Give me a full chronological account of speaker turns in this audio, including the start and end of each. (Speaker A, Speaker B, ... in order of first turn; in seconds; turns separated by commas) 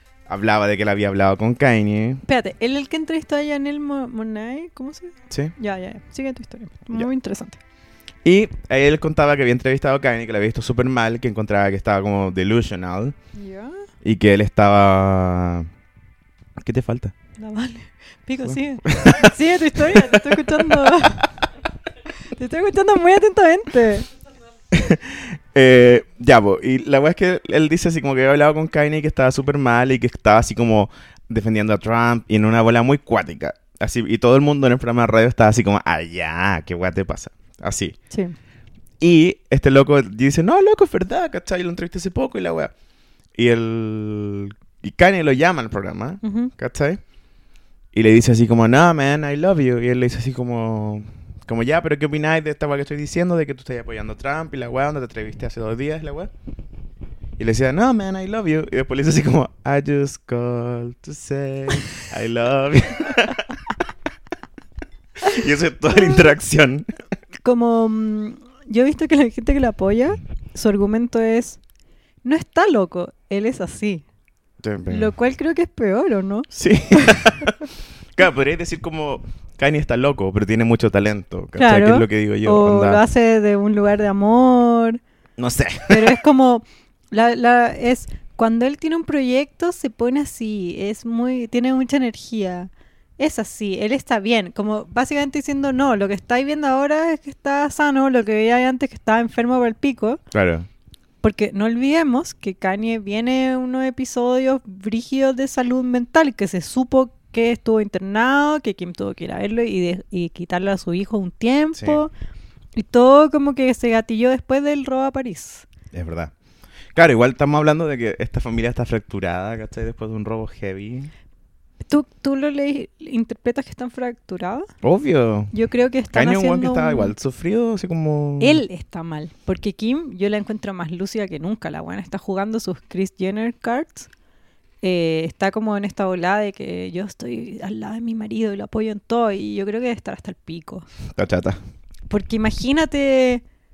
Speaker A: 0.3-2.2, Speaker B: 2.3-7.6, Speaker A: 8.2-13.2, Speaker B: 13.3-13.9, Speaker A: 14.0-15.7, Speaker A: 16.6-17.1, Speaker B: 17.4-21.3, Speaker A: 18.4-21.3, Speaker B: 22.2-24.1, Speaker A: 24.7-38.0, Speaker A: 39.0-42.7, Speaker A: 43.4-47.0, Speaker B: 46.2-46.5, Speaker A: 47.9-56.3, Speaker A: 57.4-63.8, Speaker A: 65.2-66.9, Speaker B: 66.0-66.3, Speaker B: 67.4-71.6, Speaker B: 72.2-74.0, Speaker A: 74.6-75.1, Speaker B: 74.9-77.4, Speaker A: 76.5-83.0, Speaker B: 81.6-85.0, Speaker A: 85.4-86.2, Speaker B: 85.9-100.2, Speaker A: 100.3-100.7, Speaker B: 101.2-112.1, Speaker A: 111.8-112.0, Speaker B: 112.8-115.7, Speaker A: 115.9-116.3, Speaker A: 116.9-121.1, Speaker B: 121.9-124.7, Speaker A: 124.8-125.5, Speaker B: 125.5-127.1, Speaker A: 126.1-128.6, Speaker B: 128.4-134.1, Speaker B: 134.8-140.9, Speaker A: 141.2-141.6, Speaker B: 142.1-143.4